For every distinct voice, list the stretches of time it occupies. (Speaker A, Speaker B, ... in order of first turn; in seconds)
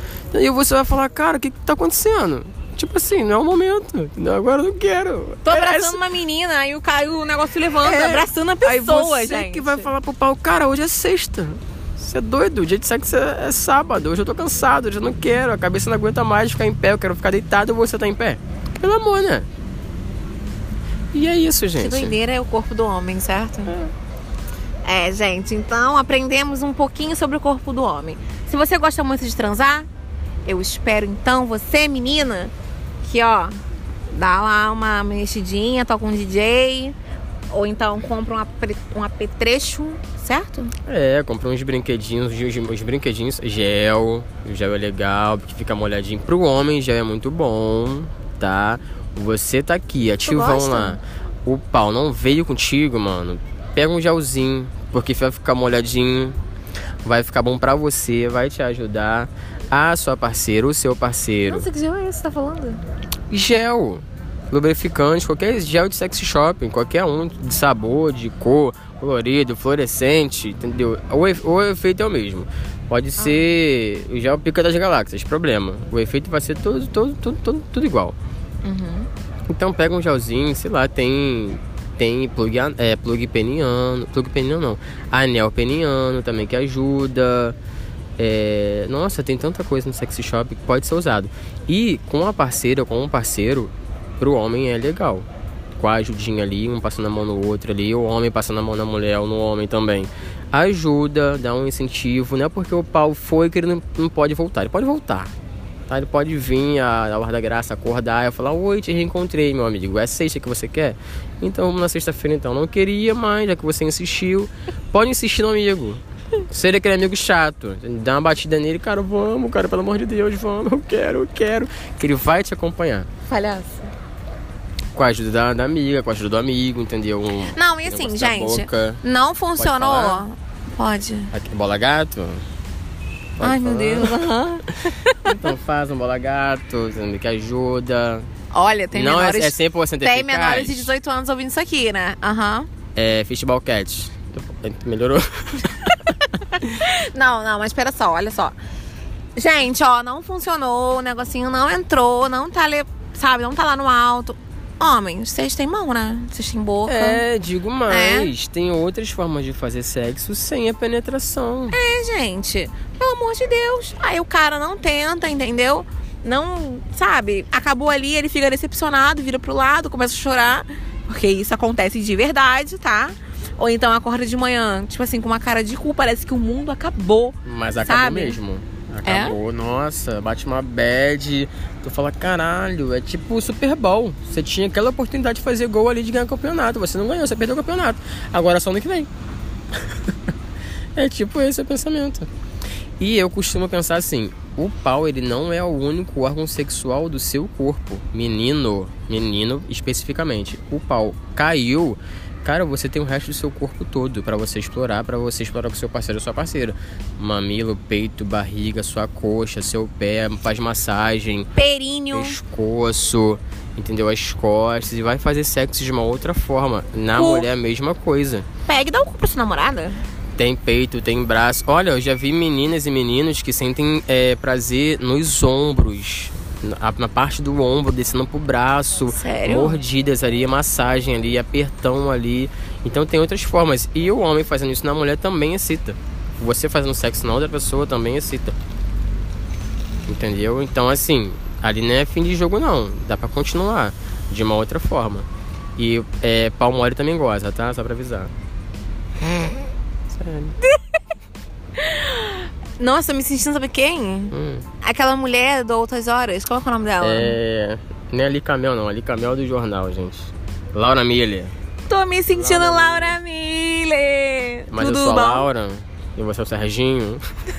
Speaker A: 0.3-6.0, 7.8-19.5, 21.1-22.2, 40.9-56.4, 57.0-61.7, 63.3-78.2, 79.5-87.5, 88.2-95.3, 95.8-105.3, 105.9-123.1, 124.9-129.0, 129.6-130.2, 131.3-132.4, 133.4-134.3, 135.2-138.3, 138.9-140.9, 142.9-145.9, 156.9-161.8, 177.4-189.1, 189.8-190.1, 190.9-192.3, 193.0-211.5, 212.1-218.5, 220.4-238.5, 240.1-248.3, 250.1-250.5, 254.3-254.6, 257.0-261.5, 262.3-263.2, 264.7-267.2
Speaker B: 5.4-9.9, 21.8-23.8, 24.8-29.9, 30.4-33.6, 34.1-37.0, 37.5-40.7, 50.2-51.0, 61.5-62.8, 73.2-73.4, 78.6-79.1, 123.3-123.9, 127.5-131.3, 133.4-135.4, 138.5-142.7, 145.8-148.6, 149.3-157.2, 157.9-158.3, 161.7-178.4, 179.0-179.4, 211.5-212.4, 217.1-217.5, 218.7-220.0, 229.1-229.8, 251.8-257.4, 261.9-265.5